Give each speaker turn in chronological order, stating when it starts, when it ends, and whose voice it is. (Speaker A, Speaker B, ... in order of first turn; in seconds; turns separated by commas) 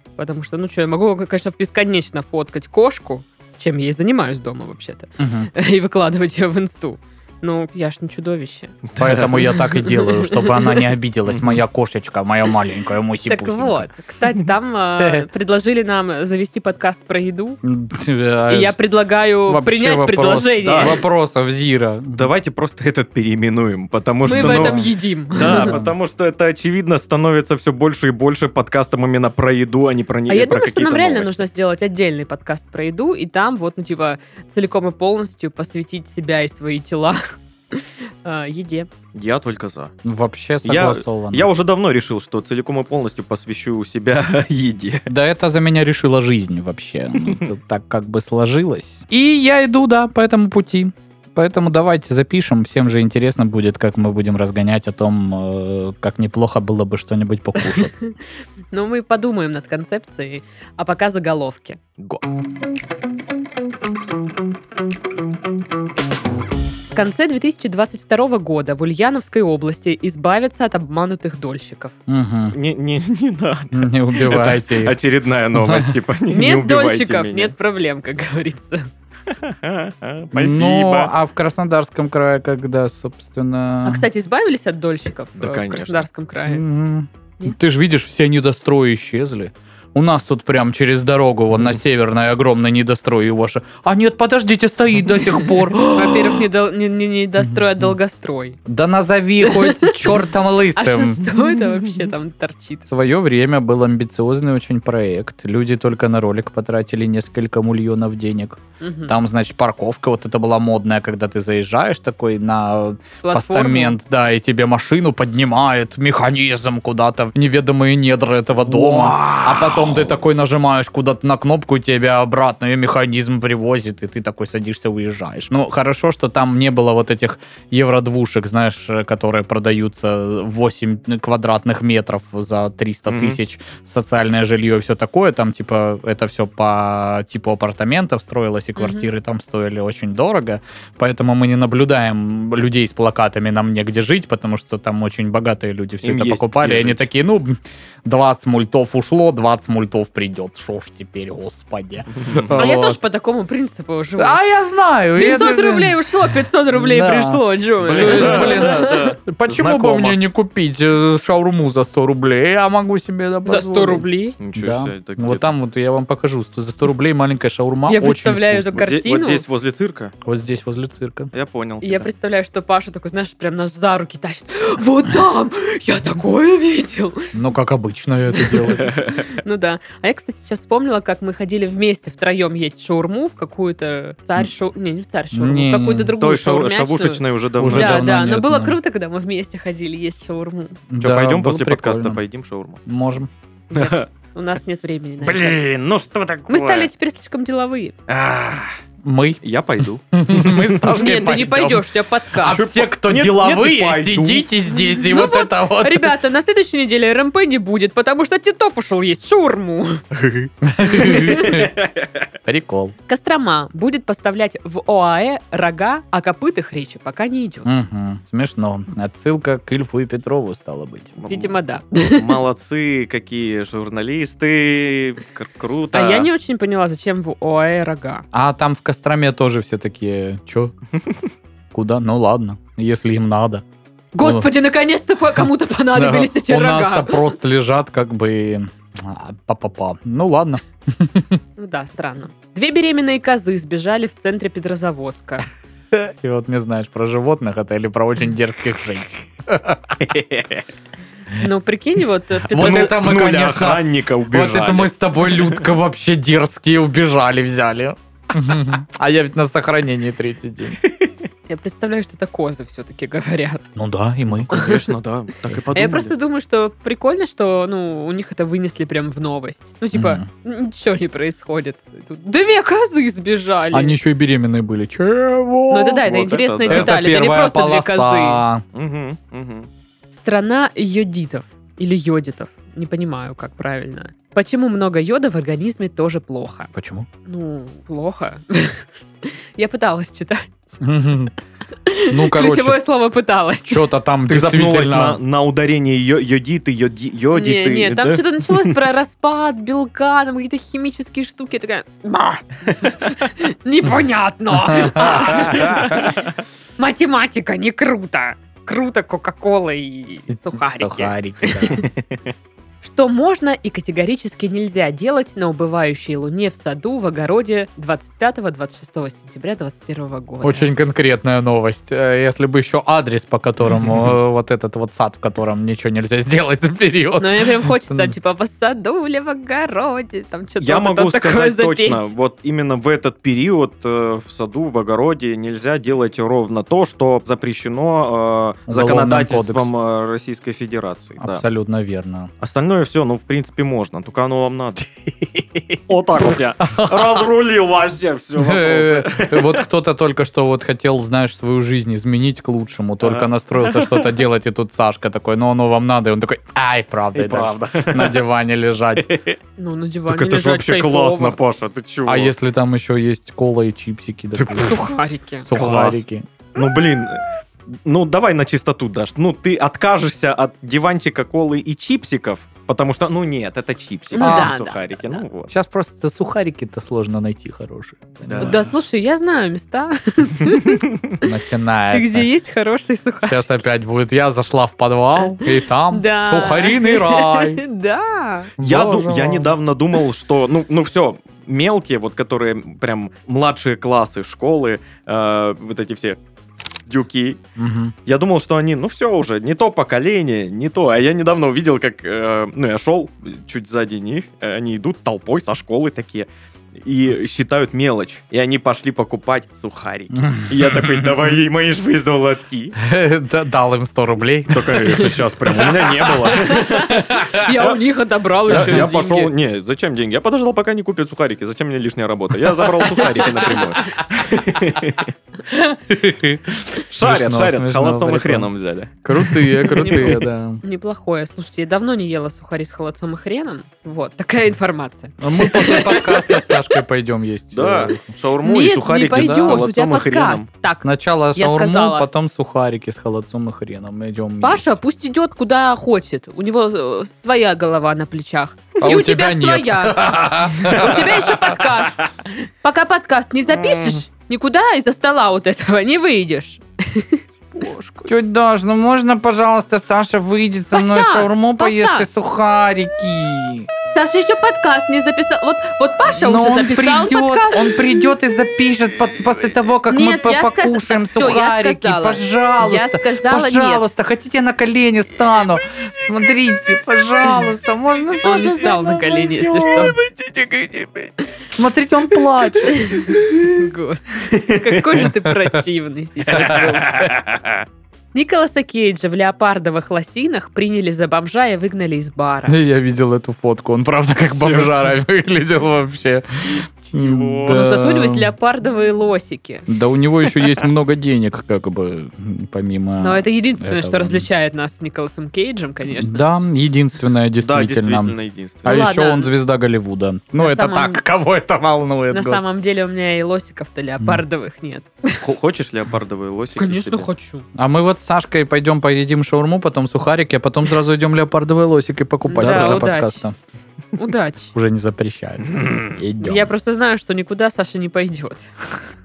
Speaker A: 0.2-8.8, Speaker B: 5.2-5.5, Speaker C: 8.9-9.7, Speaker B: 9.0-13.9, Speaker A: 9.5-10.8, Speaker C: 11.3-11.6, Speaker A: 13.3-17.6, Speaker B: 17.6-18.8, Speaker A: 18.5-21.0, Speaker B: 19.5-22.3, Speaker C: 20.6-21.0, Speaker C: 22.1-31.4, Speaker A: 24.2-25.8, Speaker B: 24.3-24.9, Speaker B: 25.5-25.9, Speaker A: 30.3-38.9, Speaker C: 39.1-39.9, Speaker B: 40.0-41.5, Speaker C: 40.6-45.1, Speaker B: 45.1-58.0, Speaker A: 57.7-58.1, Speaker A: 58.7-61.8, Speaker A: 66.9-71.9, Speaker B: 72.1-72.6, Speaker C: 72.5-77.5, Speaker B: 73.7-75.0, Speaker B: 75.5-76.0, Speaker A: 76.3-78.9, Speaker C: 79.3-81.1, Speaker B: 80.3-84.1, Speaker A: 83.8-86.6, Speaker C: 85.4-86.1, Speaker B: 86.5-96.5, Speaker A: 95.5-98.6, Speaker B: 97.4-97.9, Speaker B: 98.7-101.3, Speaker A: 99.4-100.2, Speaker A: 100.7-102.9, Speaker B: 102.9-153.0, Speaker A: 108.8-109.2, Speaker A: 113.2-114.0, Speaker C: 118.8-120.0, Speaker C: 133.1-133.4, Speaker A: 138.8-139.1, Speaker C: 146.0-147.1, Speaker C: 152.2-152.7, Speaker A: 152.5-154.4, Speaker B: 154.2-156.0, Speaker A: 155.2-159.1, Speaker B: 156.7-164.1, Speaker C: 157.8-160.2, Speaker A: 163.5-164.4, Speaker C: 164.4-165.5, Speaker B: 164.6-168.9, Speaker A: 167.9-169.4, Speaker C: 168.8-170.1, Speaker B: 170.2-171.3, Speaker C: 171.3-172.1, Speaker A: 171.8-177.3, Speaker B: 177.3-178.9, Speaker A: 178.3-190.8, Speaker C: 178.8-179.2, Speaker B: 185.3-186.1, Speaker C: 186.2-188.1, Speaker B: 187.6-188.8, Speaker B: 190.9-192.2, Speaker C: 191.0-192.8, Speaker B: 192.9-193.3, Speaker A: 193.7-195.6, Speaker C: 193.7-194.1, Speaker C: 195.2-196.9, Speaker A: 196.5-198.0, Speaker C: 198.1-198.7, Speaker B: 199.0-199.4, Speaker C: 199.4-201.1, Speaker B: 200.1-201.8, Speaker A: 200.9-202.6, Speaker B: 202.4-206.2, Speaker C: 202.4-204.5, Speaker A: 204.7-210.0, Speaker C: 210.1-212.2, Speaker B: 210.6-211.7, Speaker A: 210.9-211.7, Speaker B: 212.4-212.9, Speaker A: 213.1-217.7, Speaker B: 217.7-221.2, Speaker C: 221.2-226.3, Speaker A: 221.3-222.4, Speaker A: 225.9-228.3, Speaker B: 228.3-230.7, Speaker B: 231.7-233.6, Speaker A: 234.1-237.3, Speaker B: 234.2-234.5, Speaker B: 235.4-241.4, Speaker A: 241.6-245.5, Speaker B: 245.9-250.0, Speaker C: 250.0-250.7, Speaker A: 251.4-253.0, Speaker B: 252.5-260.8, Speaker C: 252.5-255.7, Speaker A: 261.5-263.7, Speaker B: 263.8-264.5, Speaker C: 264.5-266.1, Speaker A: 264.5-264.8, Speaker A: 265.7-274.0, Speaker B: 269.9-270.2, Speaker B: 273.7-276.0, Speaker A: 275.7-278.4, Speaker C: 276.1-277.0, Speaker B: 276.7-278.6, Speaker C: 278.7-279.7, Speaker A: 280.1-286.7, Speaker B: 286.7-287.1, Speaker A: 287.3-290.8, Speaker B: 290.8-291.4, Speaker A: 291.9-293.8, Speaker B: 292.1-292.8, Speaker B: 293.7-295.2, Speaker C: 294.3-298.8, Speaker A: 297.3-306.1, Speaker B: 304.6-305.9, Speaker C: 305.6-306.1, Speaker A: 306.8-311.9, Speaker B: 310.3-311.8, Speaker A: 312.8-320.7, Speaker B: 320.4-328.1, Speaker A: 327.2-332.1, Speaker C: 330.6-341.4, Speaker B: 338.7-339.7, Speaker B: 341.2-342.3, Speaker C: 342.4-344.9, Speaker B: 345.2-345.8, Speaker C: 345.9-349.6, Speaker B: 346.6-347.3, Speaker B: 348.4-359.1, Speaker C: 353.0-354.2, Speaker C: 357.1-358.2, Speaker C: 359.0-359.4, Speaker A: 359.6-361.4, Speaker C: 360.1-362.3, Speaker B: 362.1-364.9, Speaker C: 364.4-365.0, Speaker A: 364.7-365.5, Speaker B: 365.4-366.3, Speaker C: 365.5-366.0, Speaker C: 366.6-375.5, Speaker A: 374.1-375.2, Speaker B: 374.2-374.5, Speaker B: 375.5-378.6, Speaker C: 378.2-378.7, Speaker A: 378.4-381.2, Speaker B: 381.2-382.3, Speaker A: 381.9-383.6, Speaker B: 383.2-387.6, Speaker A: 385.2-388.6, Speaker B: 388.6-389.6, Speaker C: 388.6-396.2, Speaker C: 396.9-397.4, Speaker B: 397.6-397.9, Speaker C: 398.1-412.8, Speaker B: 410.3-411.0, Speaker B: 412.8-417.2, Speaker C: 414.5-417.7, Speaker A: 416.3-419.3, Speaker C: 418.5-425.1, Speaker B: 418.5-418.8, Speaker B: 422.8-423.6, Speaker B: 425.9-428.5, Speaker C: 426.8-430.3, Speaker B: 429.0-430.6, Speaker A: 429.8-436.7, Speaker B: 435.2-438.1, Speaker C: 437.5-440.5, Speaker A: 438.4-442.1, Speaker B: 439.1-439.6, Speaker B: 440.7-444.8, Speaker A: 444.4-452.0, Speaker B: 448.8-451.4, Speaker C: 450.6-450.9, Speaker A: 452.6-458.1, Speaker B: 458.0-463.7, Speaker A: 460.7-462.1, Speaker A: 463.9-467.8, Speaker B: 466.1-480.0, Speaker A: 469.9-473.9, Speaker A: 478.2-480.0, Speaker C: 479.6-481.1, Speaker B: 481.6-483.5, Speaker A: 482.7-487.1, Speaker C: 484.3-484.6, Speaker C: 486.3-487.6, Speaker B: 486.3-487.1, Speaker A: 488.1-492.6, Speaker B: 492.5-498.3, Speaker C: 494.3-494.7, Speaker C: 496.6-497.6, Speaker A: 497.5-499.7, Speaker B: 499.7-504.3, Speaker A: 503.0-506.2, Speaker B: 505.9-512.4, Speaker C: 507.4-508.9, Speaker A: 508.6-509.3, Speaker A: 510.4-511.0, Speaker A: 512.1-515.3, Speaker C: 515.2-517.1, Speaker A: 516.6-517.5, Speaker B: 517.6-523.4, Speaker A: 522.3-523.2, Speaker C: 522.4-522.9, Speaker A: 524.0-524.5, Speaker B: 524.5-526.5, Speaker C: 525.5-526.0, Speaker A: 526.2-528.8